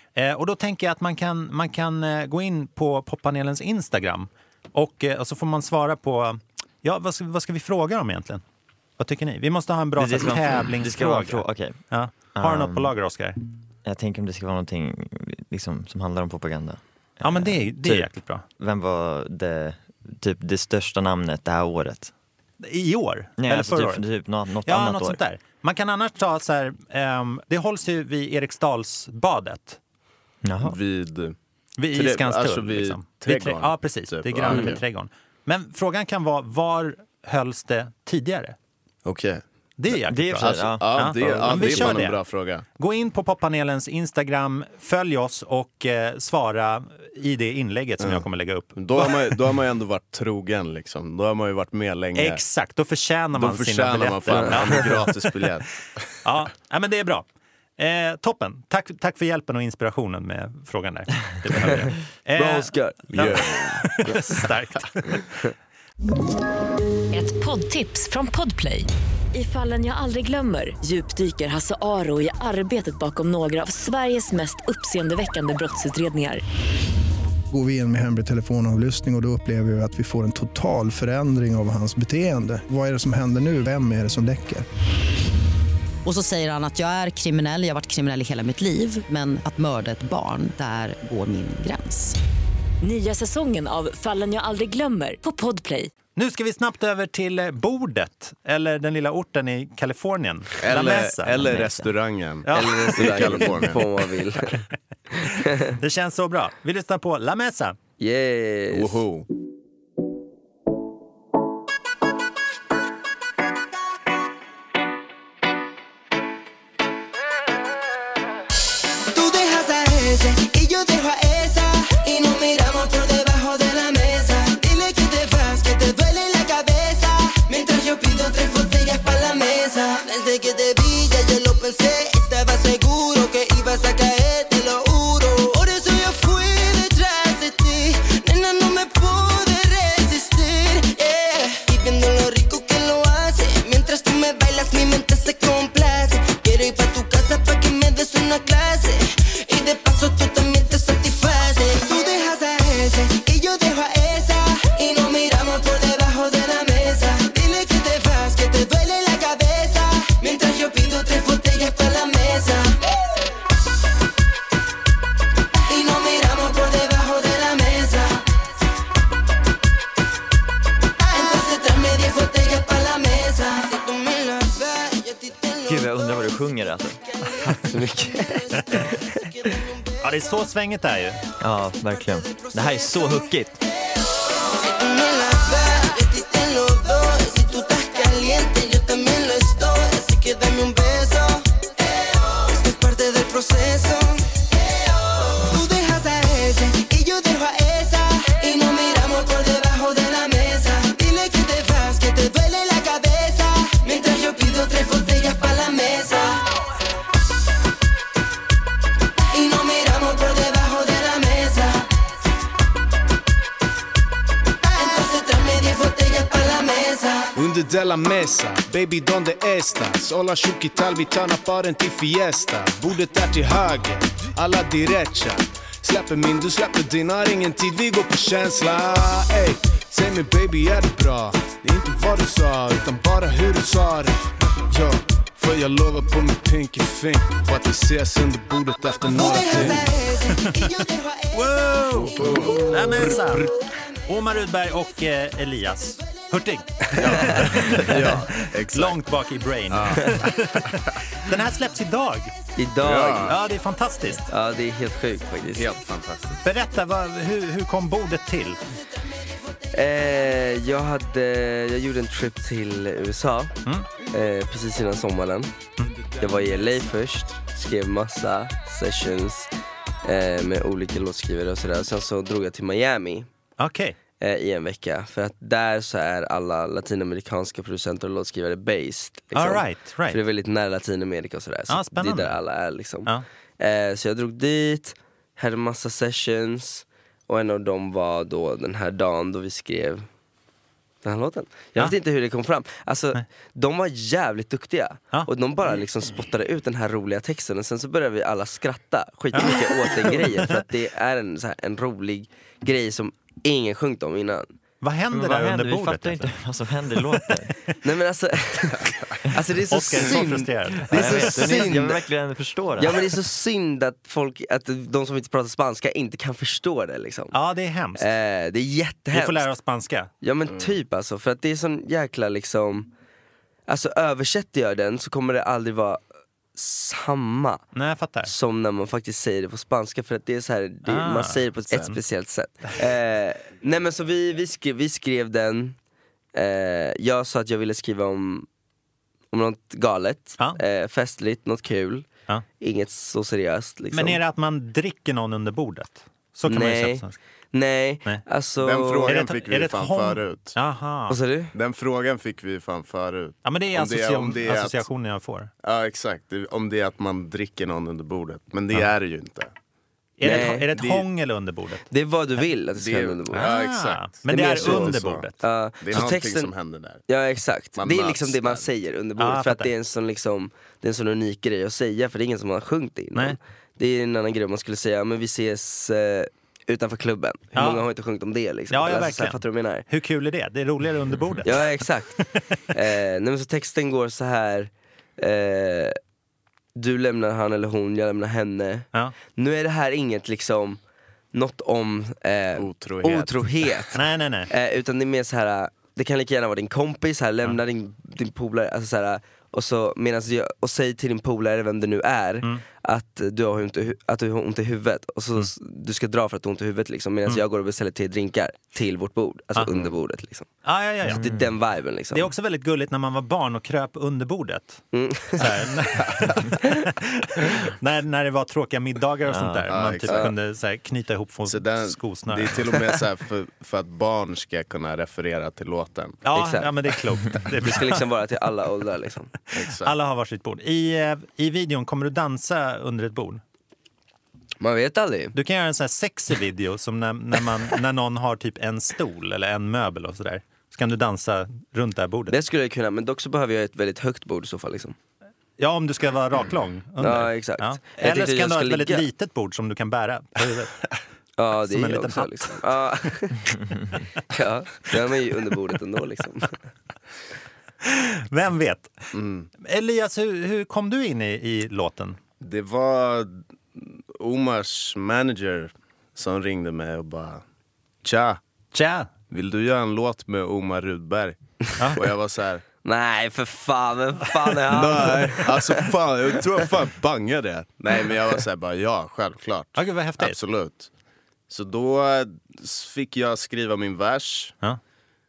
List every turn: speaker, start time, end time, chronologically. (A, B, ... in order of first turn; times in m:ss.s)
0:00.1-0:08.4 A
0:09.0-0:13.4 A
0:10.0-0:11.8 B
0:12.3-0:12.9 B
0:13.8-0:22.1 B
0:17.2-0:18.4 A
0:22.6-0:24.0 A
0:23.4-0:25.2 B
0:24.6-0:29.8 A
0:30.4-0:30.8 B
0:30.6-0:31.3 C
0:31.8-0:38.6 A
0:31.9-0:34.8 C
0:39.0-0:39.4 C
0:39.8-0:49.4 A
0:40.1-0:42.0 B
0:40.4-0:42.6 C
0:48.0-0:52.4 C
0:52.1-0:55.2 A
0:53.3-0:55.7 C
0:56.2-0:57.3 A
0:57.8-1:05.3 A
1:02.4-1:04.4 D
1:03.1-1:03.8 C
1:07.1-1:16.4 E
1:17.5-1:24.6 F
1:26.0-1:32.2 G
1:32.8-1:35.9 E
1:36.2-1:41.8 A
1:40.6-1:43.9 C
1:42.4-1:43.5 A
1:42.5-1:44.6 D
1:45.2-1:47.8 A
1:45.2-1:45.7 D
1:48.0-1:49.0 D
1:48.7-1:49.2 C
1:59.1-2:42.8 H
2:45.7-2:48.2 H
2:51.0-2:56.3 H
2:55.6-2:57.0 B
2:57.3-2:59.8 H
2:57.7-2:59.2 D
2:58.5-2:58.9 A
3:00.0-3:01.2 A
3:01.4-3:03.6 B
3:02.3-3:03.3 H
3:04.5-3:26.4 H
3:29.3-3:31.9 H
3:34.6-3:37.3 H
3:37.3-3:59.9 I
3:59.1-4:03.5 H
4:00.4-4:00.7 A
4:01.3-4:03.5 A
4:02.0-4:02.7 C
4:04.0-4:12.3 A
4:06.9-4:09.0 C
4:09.7-4:10.9 C
4:12.6-4:13.3 D
4:12.8-4:13.4 C
4:13.2-4:14.2 A
4:14.3-4:15.7 D
4:15.5-4:16.4 C
4:16.4-4:18.6 A
4:19.7-4:23.6 D
4:24.1-4:25.5 D
4:26.2-4:29.5 D
4:30.0-4:33.3 D
4:33.6-4:34.0 A
4:34.2-4:50.0 D
4:39.3-4:40.2 A
4:41.7-4:42.4 A
4:51.0-5:04.5 D
4:59.3-5:00.6 A
5:04.8-5:06.3 A
5:05.1-5:07.5 B
5:07.8-5:12.0 D
5:09.7-5:11.7 A
5:10.9-5:13.0 B
5:12.8-5:17.3 D
5:17.3-5:18.0 A
5:18.0-5:19.5 D
5:19.1-5:20.1 A
5:20.2-5:22.9 D
5:23.7-5:26.0 D
5:26.5-5:27.6 D
5:27.7-5:28.3 A
5:28.2-5:35.8 D
5:30.8-5:32.0 A
5:36.3-5:38.5 D
5:39.3-5:42.1 D
5:42.6-5:44.2 D
5:43.9-5:47.2 A
5:46.5-5:49.2 D
5:48.6-5:50.6 C
5:49.1-5:51.2 A
5:51.1-5:51.5 D
5:51.5-5:54.9 C
5:53.4-5:55.5 A
5:55.6-5:59.5 C
6:00.2-6:01.8 A
6:00.2-6:00.7 D
6:00.2-6:01.0 C
6:01.9-6:03.5 D
6:02.7-6:05.3 C
6:03.3-6:05.4 A
6:04.3-6:06.5 D
6:05.8-6:07.0 C
6:07.1-6:19.8 D
6:07.8-6:08.6 C
6:09.2-6:09.7 A
6:17.5-6:17.8 A
6:18.7-6:22.4 A
6:21.4-6:26.0 D
6:26.8-6:30.8 D
6:31.3-6:34.0 D
6:32.6-6:33.5 C
6:33.9-6:34.5 A
6:34.5-6:50.5 D
6:50.6-6:51.2 A
6:51.0-6:51.5 B
6:51.1-6:52.3 D
6:52.1-6:54.8 A
6:54.9-6:55.6 D
6:55.3-7:02.7 A
6:59.3-6:59.7 B
6:59.7-7:00.3 C
7:00.1-7:00.3 D
7:01.4-7:06.2 C
7:06.2-7:08.0 A
7:06.3-7:06.7 D
7:07.5-7:09.3 D
7:09.5-7:09.9 C
7:09.8-7:13.4 A
7:14.6-7:15.3 D
7:15.3-7:22.4 A
7:22.3-7:24.9 D
7:25.6-7:30.9 A
7:27.0-7:29.0 D
7:31.4-7:33.5 D
7:31.6-7:32.6 A
7:34.3-7:36.6 D
7:37.8-7:39.0 A
7:39.1-7:39.5 C
7:39.6-7:42.2 A
7:42.4-7:47.4 C
7:48.0-7:48.4 C
7:48.7-7:49.1 A
7:49.3-7:51.4 C
7:51.9-7:52.6 C
7:52.8-7:55.8 D
7:54.7-8:00.9 C
7:59.8-8:00.4 A
8:01.5-8:04.5 C